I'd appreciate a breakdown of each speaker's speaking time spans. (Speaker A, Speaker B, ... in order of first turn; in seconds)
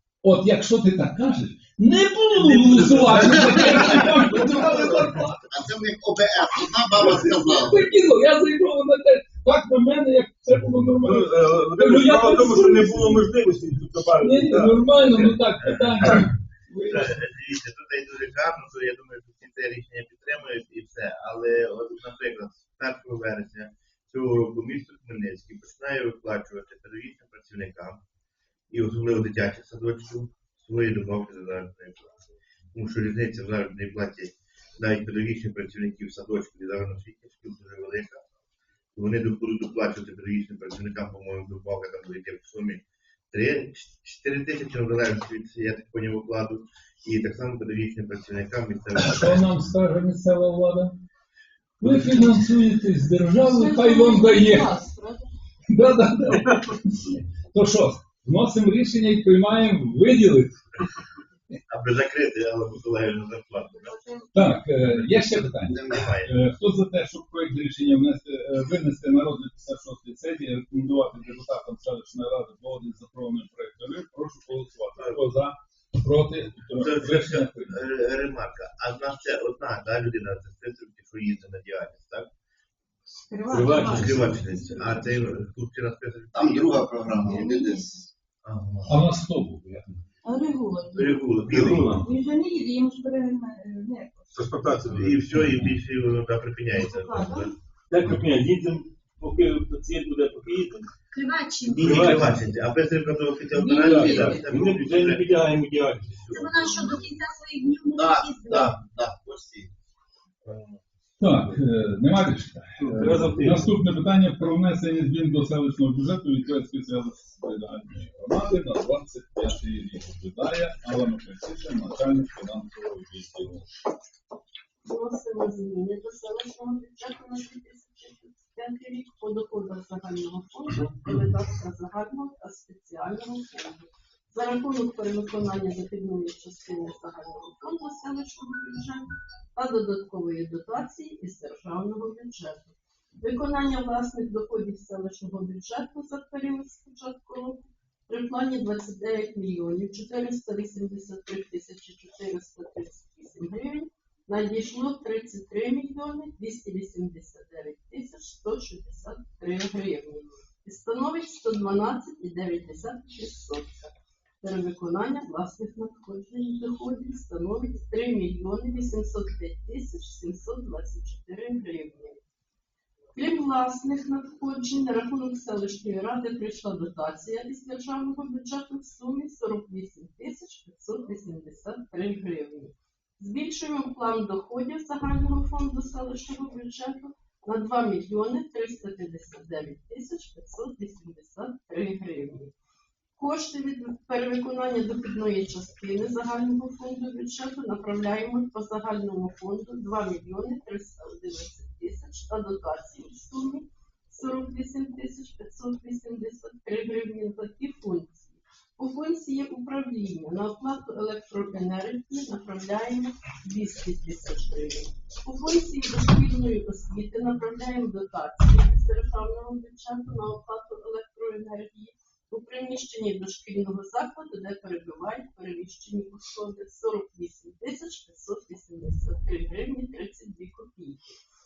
Speaker A: 0.2-5.5, 7.0-13.3, 14.2-17.2, 49.0-51.0, 51.8-54.8, 55.7-60.6, 64.3-77.8, 88.8-90.0, 91.5-92.1, 95.3-95.8, 111.2-123.7
Speaker B: 3.1-7.8, 65.8-66.1, 86.3-87.9, 108.0-109.7
Speaker C: 11.0-15.1, 83.5-84.4, 91.5-92.0, 94.3-95.4, 97.9-100.9, 101.7-102.4, 103.6-106.3, 112.8-113.8
Speaker D: 15.6-16.3, 16.9-28.0, 28.7-32.1, 32.7-38.2, 39.0-49.6, 61.7-63.9, 65.8-66.3, 76.8-82.3, 83.6-87.0, 88.4-89.0, 91.0-92.0, 94.9-97.5, 101.8-107.1, 110.5-110.8
Speaker E: 53.5-55.2, 63.8-64.4, 124.8-172.2, 173.2-192.5, 193.2-231.1
Speaker F: 83.1-84.3, 87.2-88.1, 90.2-91.3, 91.9-94.3, 96.8-97.5, 103.6-104.4
Speaker G: 101.1-102.2, 106.3-108.8